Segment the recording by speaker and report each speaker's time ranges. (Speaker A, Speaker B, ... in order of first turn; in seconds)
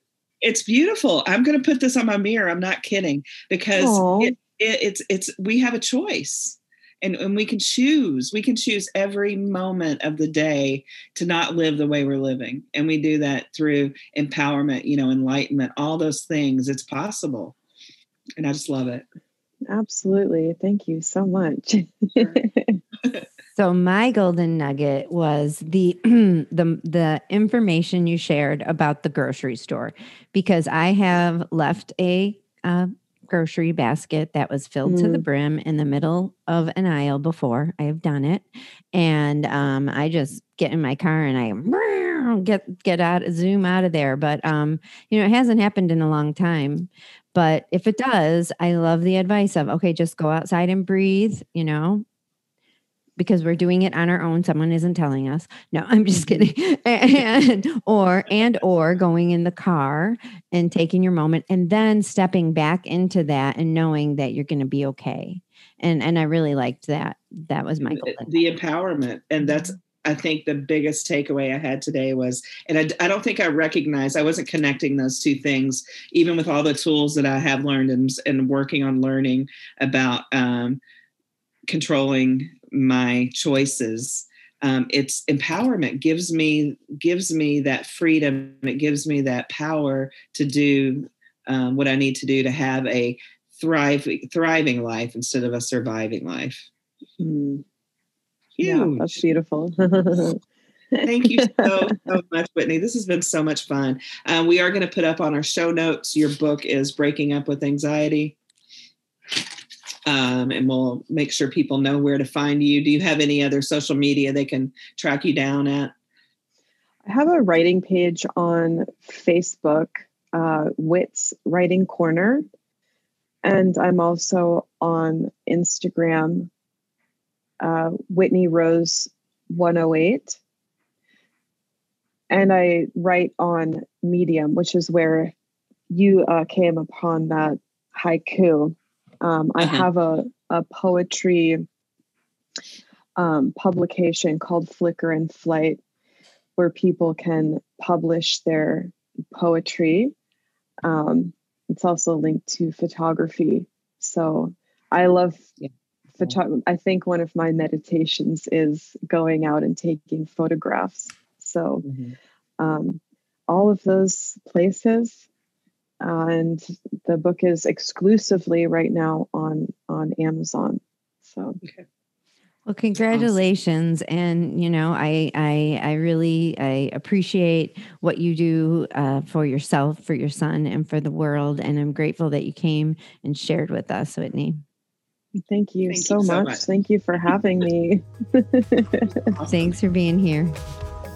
Speaker A: 0.4-17.6, 18.4-19.1, 67.9-80.8, 81.7-96.7, 98.5-99.2, 101.0-108.4, 110.0-115.9, 139.6-139.9, 155.6-156.4, 161.8-162.1, 173.1-173.4, 185.9-186.7, 189.2-189.8
Speaker B: 3.8-4.3, 19.7-22.8, 34.8-35.2, 97.2-97.6, 98.6-100.4, 101.0-101.7, 117.0-122.5, 123.4-126.5, 127.6-130.4, 132.3-135.3, 135.9-141.6, 143.2-145.8, 146.6-150.1, 150.8-155.5, 156.2-161.9, 162.6-165.3, 166.0-171.6, 185.5-189.3
Speaker C: 23.6-52.0, 53.2-68.4, 172.7-184.6, 189.5-190.5